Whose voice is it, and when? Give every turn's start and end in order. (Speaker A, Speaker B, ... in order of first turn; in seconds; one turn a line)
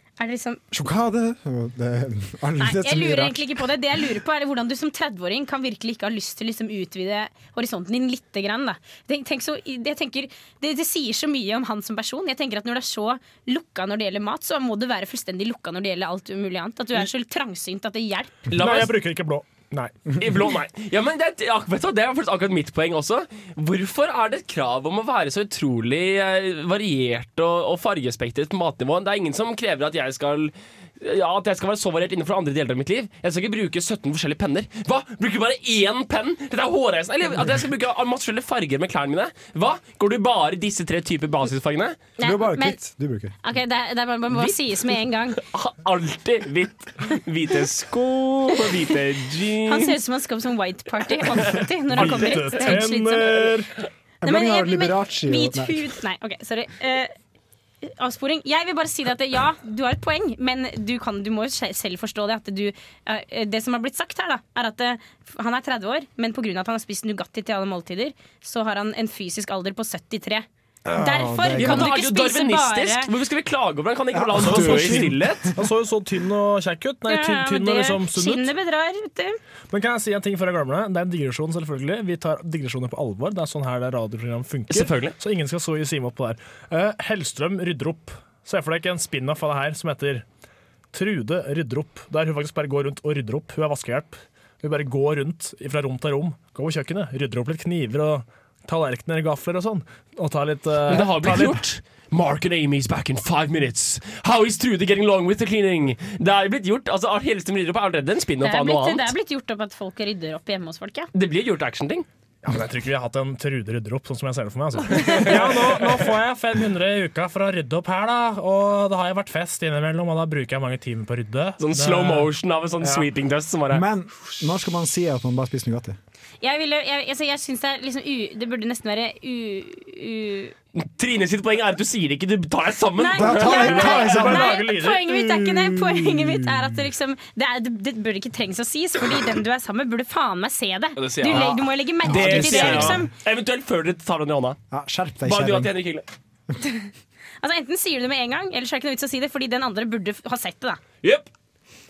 Speaker A: 0.2-0.6
Speaker B: 0.7-3.5
Speaker A: 2.6-18.4
Speaker C: 18.5-19.0
Speaker D: 18.5-20.0
Speaker C: 20.2-42.0
Speaker A: 42.2-42.8
Speaker B: 42.2-43.4
Speaker A: 43.4-45.4
Speaker C: 45.4-50.0
Speaker A: 49.6-53.5
Speaker D: 51.9-53.7
Speaker B: 54.2-55.9
Speaker A: 54.2-57.1
Speaker A: 57.8-70.5
Speaker B: 70.8-71.9
Speaker A: 71.0-73.1
Speaker C: 71.5-75.5
Speaker B: 74.1-75.5
Speaker D: 74.4-78.5
Speaker A: 77.1-79.4
Speaker D: 79.7-90.2
Speaker C: 84.7-85.2
Speaker D: 90.9-101.6
Speaker C: 100.9-109.1
Speaker A: 108.4-111.1
Speaker C: 111.1-112.0
Speaker D: 112.4-123.1
Speaker C: 115.1-115.7
Speaker C: 121.6-123.8
Speaker B: 123.7-126.0
Speaker A: 126.4-130.5
Speaker C: 130.7-134.3
Speaker A: 133.0-143.1
Speaker B: 133.1-134.6
Speaker D: 133.3-136.7
Speaker C: 141.0-144.6
Speaker B: 142.0-143.1
Speaker B: 144.7-145.7
Speaker C: 145.2-146.1
Speaker A: 146.6-146.9
Speaker A: 147.4-150.8
Speaker C: 151.0-151.3